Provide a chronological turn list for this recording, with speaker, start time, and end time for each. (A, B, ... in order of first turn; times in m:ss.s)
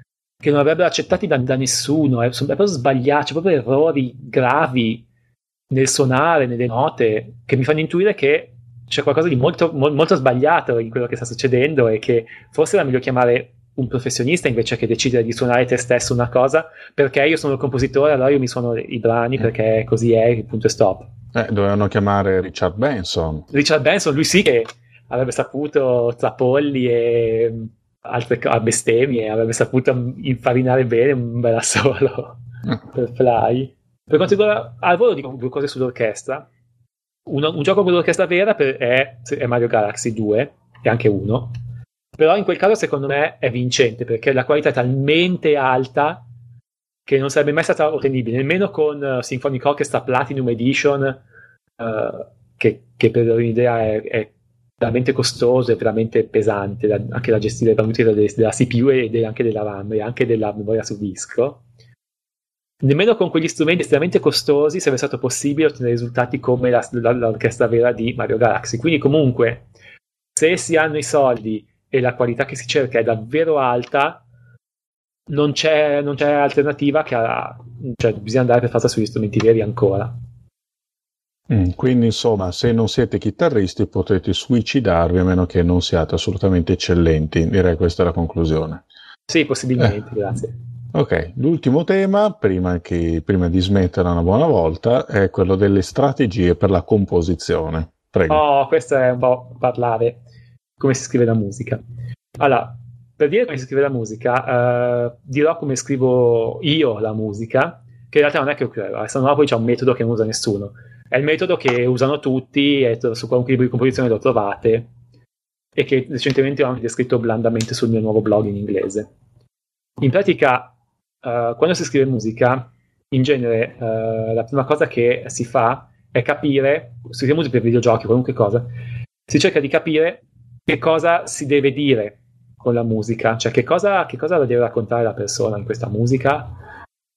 0:00.4-0:05.0 A
0:05.7-0:21.1 A
0:21.3-0:23.5 B
0:23.5-0:32.4 A
0:32.9-0:36.5 A
0:37.3-0:41.6 A
0:42.2-0:46.2 A
0:47.0-0:51.2 A
0:51.8-1:01.6 A
1:02.8-1:09.7 A
1:10.3-1:14.2 A
1:15.3-1:20.1 A
1:21.5-1:28.8 B
1:29.3-1:30.6 A
1:30.9-1:38.4 B
1:38.3-1:40.2 A
1:40.8-1:41.8 A
1:42.4-1:54.9 A
1:55.8-1:59.1 A
2:00.0-2:08.7 A
2:09.3-2:16.6 A